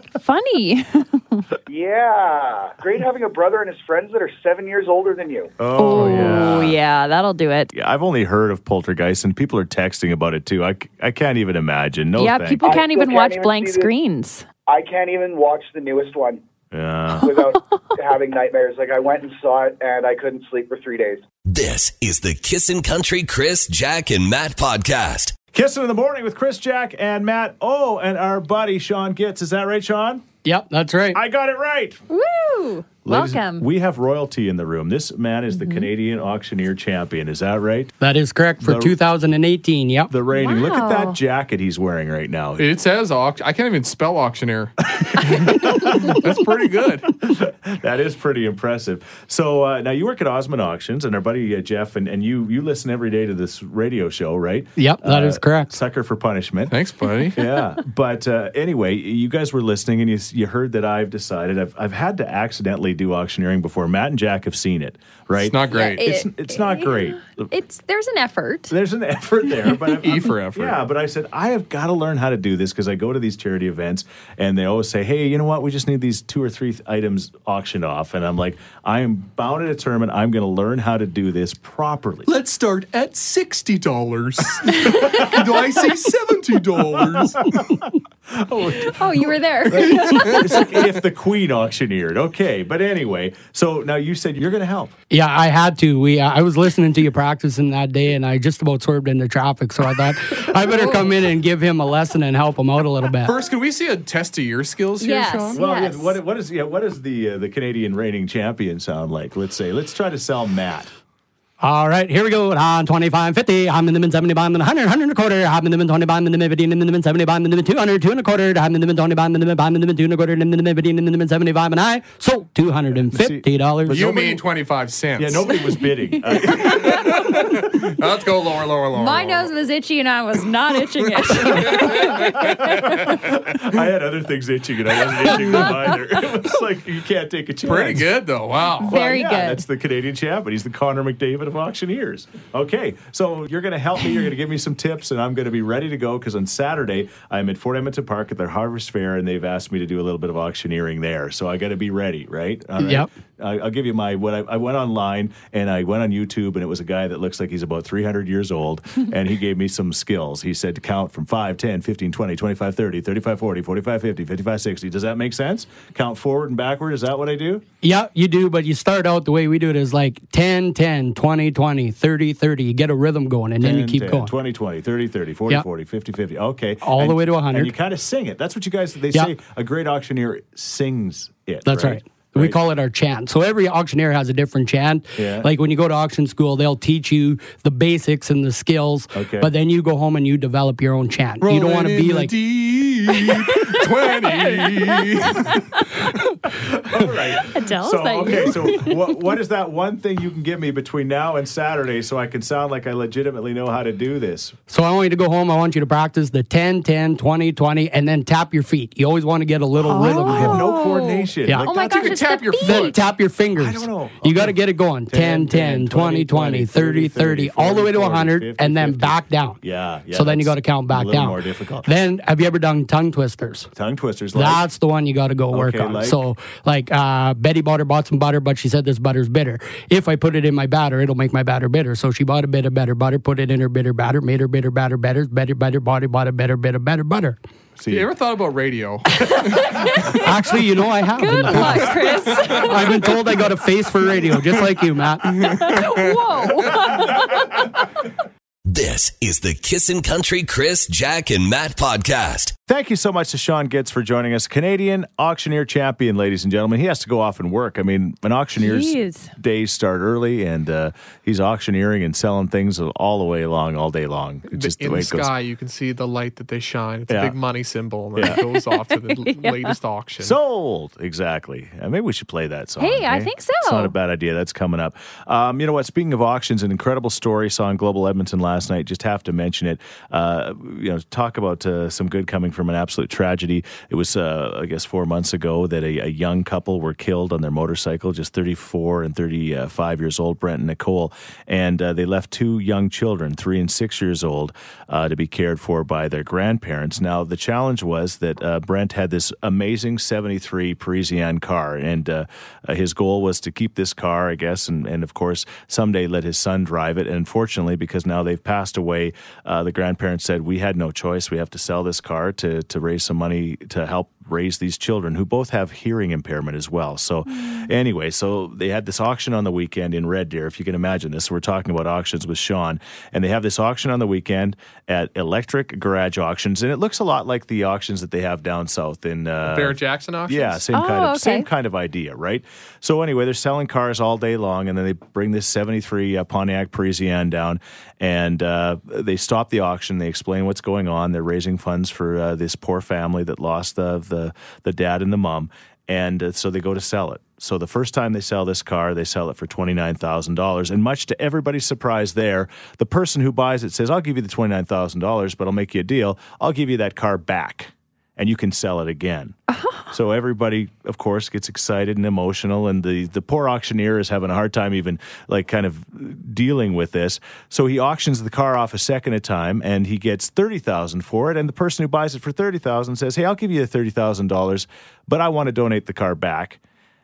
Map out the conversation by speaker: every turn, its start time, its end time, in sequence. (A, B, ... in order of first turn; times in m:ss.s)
0:00.1-0:01.4 A
0:01.7-0:05.5 B
0:05.6-0:06.8 C
0:05.8-0:07.7 A
0:05.9-0:06.5 D
0:07.7-0:12.8 C
0:12.2-0:14.4 A
0:12.6-0:13.9 B
0:14.7-0:16.4 B
0:16.7-0:17.3 C
0:17.2-0:21.2 B
0:21.4-0:25.3 E
0:25.5-0:30.2 C
0:30.4-0:31.2 F
0:31.1-0:32.0 C
0:32.1-0:33.6 A
0:33.0-0:37.9 C
0:35.6-0:35.8 A
0:38.0-0:40.1 F
0:38.6-0:39.0 C
0:40.1-0:42.7 C
0:40.3-0:41.2 A
0:42.6-0:47.1 D
0:45.0-0:46.2 C
0:47.2-0:56.8 C
0:54.8-0:55.7 F
0:56.7-0:57.4 D
0:57.3-1:07.5 C
1:05.4-1:06.0 D
1:05.7-1:08.7 A
1:08.7-1:22.3 C
1:10.0-1:10.8 D
1:22.3-1:27.4 D
1:24.8-1:25.3 A
1:25.0-1:25.4 C
1:27.0-1:27.8 C
1:28.3-1:34.9 C
1:28.7-1:30.7 A
1:29.9-1:30.4 D
1:35.1-1:43.4 F
1:43.2-1:45.6 D
1:45.0-1:46.2 A
1:45.5-1:50.9 C
1:51.6-2:04.1 F
2:03.1-2:04.4 C
2:03.9-2:05.5 D
2:05.2-2:07.9 C
2:05.8-2:07.2 A
2:06.5-2:09.5 D
2:08.9-2:13.2 A
2:11.2-2:13.2 D
2:11.5-2:18.1 C
2:17.6-2:18.9 D
2:18.8-2:19.6 A
2:18.8-2:47.6 C
2:32.8-2:33.1 F
2:47.8-2:54.3 F
2:53.6-3:02.6 C
2:56.8-2:57.7 F
3:01.6-3:12.3 F
3:05.2-3:05.5 C
3:09.1-3:09.5 C
3:11.4-3:15.8 D
3:13.5-3:16.2 A
3:16.6-3:24.6 C
3:17.4-3:19.1 A
3:24.7-3:30.7 F
3:29.8-3:32.2 C
3:29.9-3:33.0 A
3:31.7-3:33.0 D
3:32.6-3:39.6 F
3:33.6-3:41.9 C
3:40.1-3:43.7 F
3:43.7-3:44.6 C
3:44.3-3:57.4 F
3:45.5-3:46.2 C
3:57.8-3:58.1 C
3:57.9-3:59.9 D
3:59.2-4:00.3 A
4:00.1-4:05.6 F
4:01.2-4:03.1 A
4:01.7-4:03.3 D
4:05.3-4:06.9 D
4:05.4-4:07.6 A
4:08.6-4:12.5 E
4:12.7-4:25.3 C
4:18.6-4:19.3 A
4:24.5-4:30.4 D
4:27.1-4:27.4 C
4:28.1-4:28.4 C
4:28.3-4:29.7 A
4:30.2-5:59.4 C
4:32.8-4:33.9 A
5:17.3-5:17.7 A
5:29.4-5:30.6 D
5:30.7-5:31.5 A
5:59.5-5:59.9 A
5:59.9-6:16.6 C